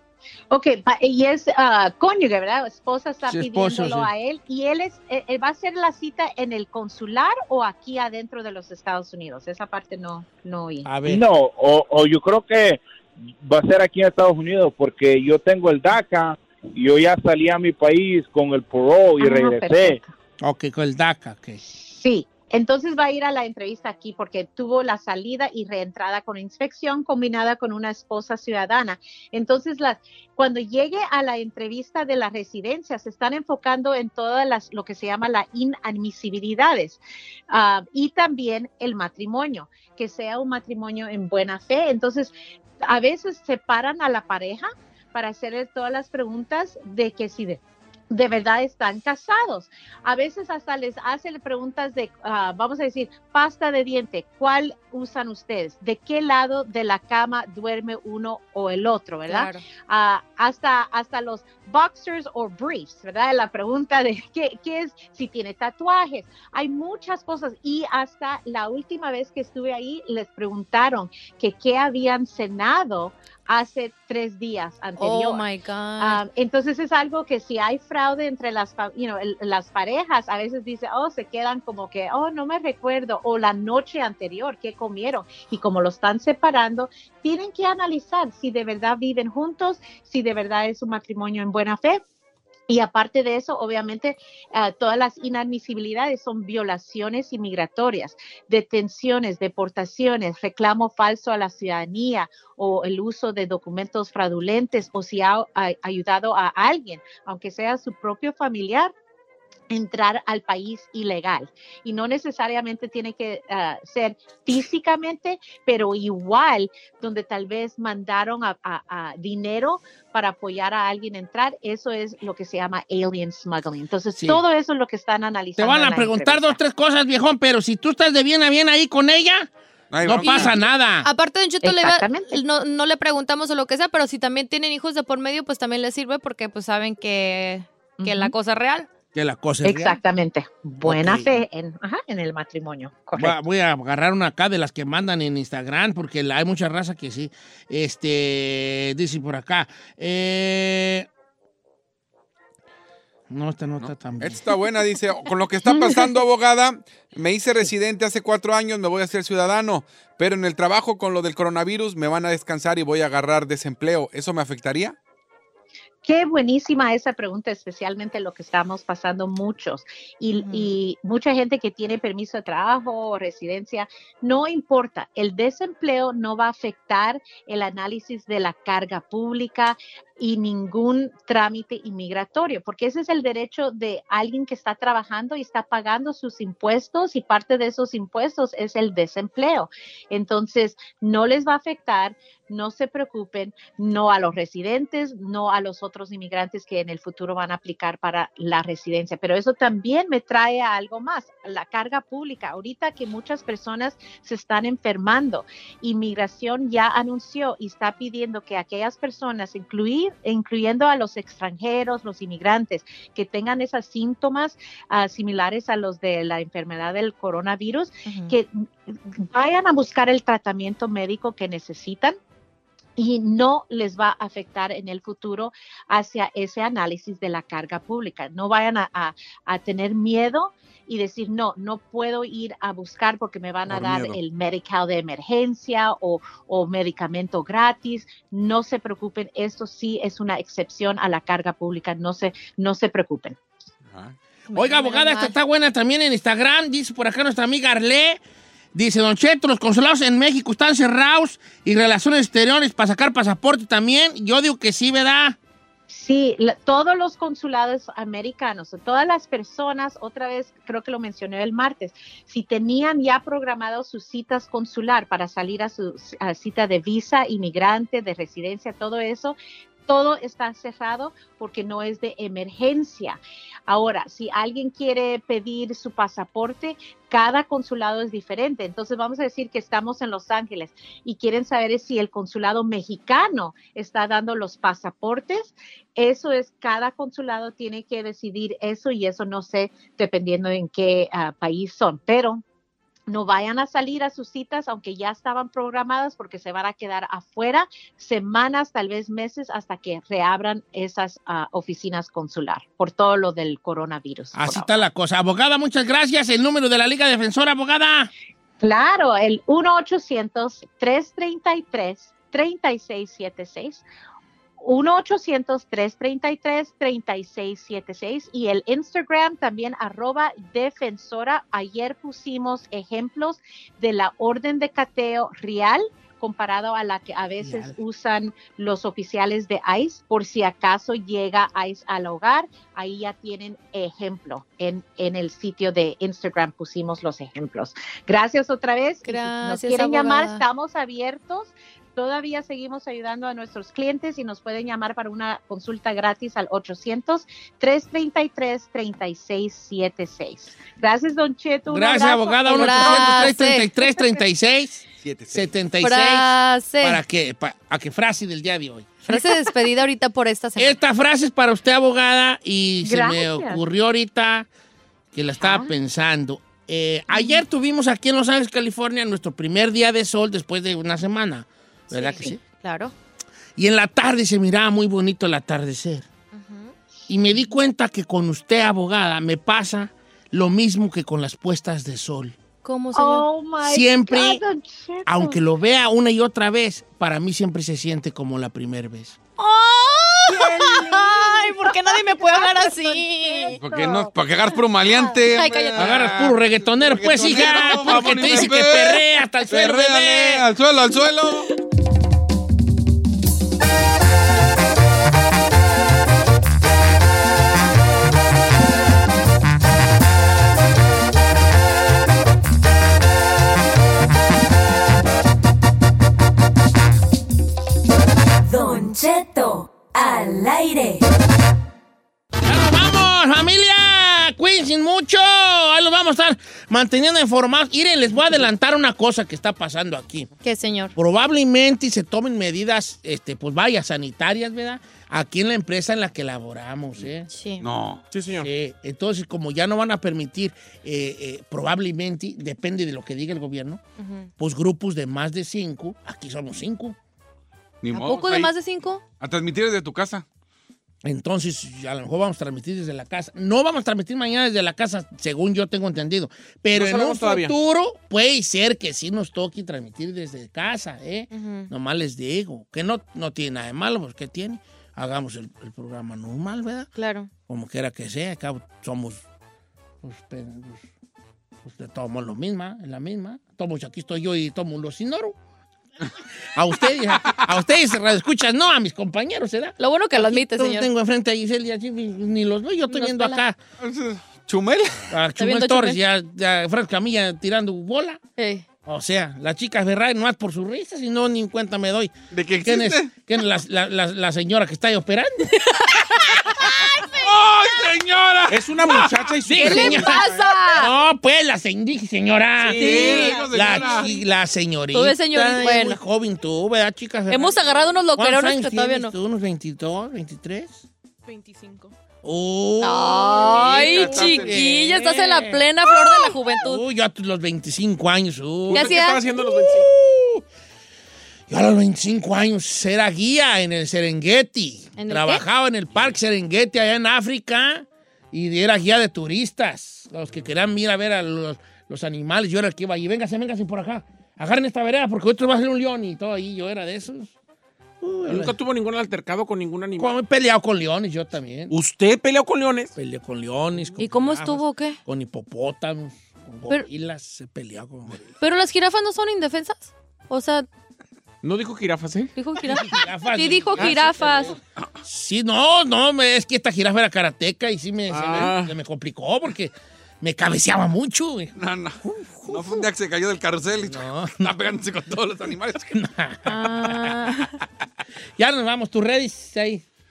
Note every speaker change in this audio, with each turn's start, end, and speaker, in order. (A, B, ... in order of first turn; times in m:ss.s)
0:00.5-0:10.9 A
0:03.3-0:04.1 B
0:10.8-0:11.2 B
0:11.1-0:20.0 C
0:19.2-0:20.1 A
0:20.4-0:21.6 B
0:21.6-1:15.4 A
0:59.3-0:59.6 D
1:15.0-1:16.2 D
1:16.0-1:32.0 A
1:32.7-1:48.9 A
1:49.7-2:06.6 A
2:04.2-2:04.4 B
2:05.6-2:09.5 B
2:09.9-2:10.5 E
2:10.0-2:11.1 B
2:10.2-2:18.9 D
2:11.6-2:12.4 A
2:18.0-2:18.3 A
2:19.1-2:20.0 B
2:19.6-2:23.4 A
2:20.8-2:21.4 B
2:23.2-2:31.1 B
2:33.3-2:34.4 B
2:33.8-2:45.0 E
2:35.7-2:36.1 A
2:46.0-3:42.2 A
2:50.4-2:50.7 D
3:38.1-3:38.3 D
3:43.0-4:03.4 A
3:53.8-3:54.1 F
4:04.5-4:08.2 B
4:04.5-4:05.4 D
4:08.8-4:15.4 B
4:15.9-4:52.4 A
4:53.1-5:04.8 A
5:04.3-5:08.1 B
5:08.6-5:13.9 A
5:14.6-5:53.4 A
5:27.4-5:27.8 B
5:39.0-5:40.4 D
5:51.7-5:59.5 B
5:52.5-5:53.7 D
5:55.0-5:55.5 E
5:55.8-5:57.0 D
5:59.1-6:00.8 D
6:00.6-6:04.5 B
6:02.8-6:03.6 A
6:05.1-6:12.4 B
6:05.4-6:05.7 A
6:07.1-6:07.4 D
6:11.9-6:12.9 D
6:13.6-6:16.1 B
6:16.3-6:16.8 D
6:17.1-6:22.4 B
6:22.6-6:23.3 D
6:23.0-6:25.4 A
6:23.7-6:24.4 B
6:25.1-6:29.2 B
6:29.4-6:33.6 D
6:30.3-6:34.1 A
6:33.6-6:41.5 E
6:34.8-6:35.3 A
6:35.2-6:35.8 D
6:35.8-6:40.4 B
6:37.9-6:38.2 F
6:58.4-7:01.0 G
7:02.4-7:10.3 B
7:10.4-7:10.9 D
7:11.0-7:17.3 B
7:17.3-7:17.7 D
7:17.6-7:18.0 E
7:18.1-7:18.5 F
7:18.4-7:23.8 B
7:24.0-7:24.3 D
7:24.4-7:27.0 B
7:27.8-7:28.5 E
7:27.9-7:29.0 D
7:29.2-7:30.2 E
7:31.0-7:46.9 B
7:36.7-7:37.5 F
7:41.3-7:41.7 D
7:47.0-7:47.3 D
7:47.5-7:49.2 B
7:50.0-7:50.9 B
7:51.6-7:55.4 B
7:56.6-8:03.6 B
7:59.8-8:00.9 D
8:02.9-8:03.4 D
8:03.8-8:05.1 E
8:05.1-8:08.2 B
8:05.4-8:06.0 D
8:08.4-8:08.7 D
8:08.8-8:12.1 B
8:12.3-8:13.1 E
8:12.6-8:15.5 B
8:15.6-8:17.2 D
8:17.2-8:19.5 E
8:18.5-8:20.2 F
8:19.5-8:27.6 B
8:19.6-8:20.9 D
8:22.7-8:24.1 E
8:22.7-8:23.5 D
8:24.9-8:26.0 D
8:27.3-8:29.1 D
8:28.2-8:30.9 B
8:32.2-8:40.4 B
8:32.8-8:36.8 D
8:33.4-8:34.6 E
8:38.7-8:39.9 F
8:38.7-8:39.3 D
8:41.5-8:57.3 B
8:45.0-8:45.4 D
8:58.0-8:58.6 B
8:58.3-9:00.2 F
9:00.0-9:01.8 B
9:01.7-9:02.9 F
9:03.0-9:08.3 B
9:04.0-9:05.0 D
9:08.4-9:10.7 D
9:11.4-9:12.3 F
9:12.4-9:14.6 D
9:12.6-9:22.8 B
9:18.1-9:18.7 F
9:21.6-9:26.0 E
9:23.8-9:24.4 B
9:26.0-9:27.2 B
9:26.5-9:27.6 D
9:28.4-9:29.8 B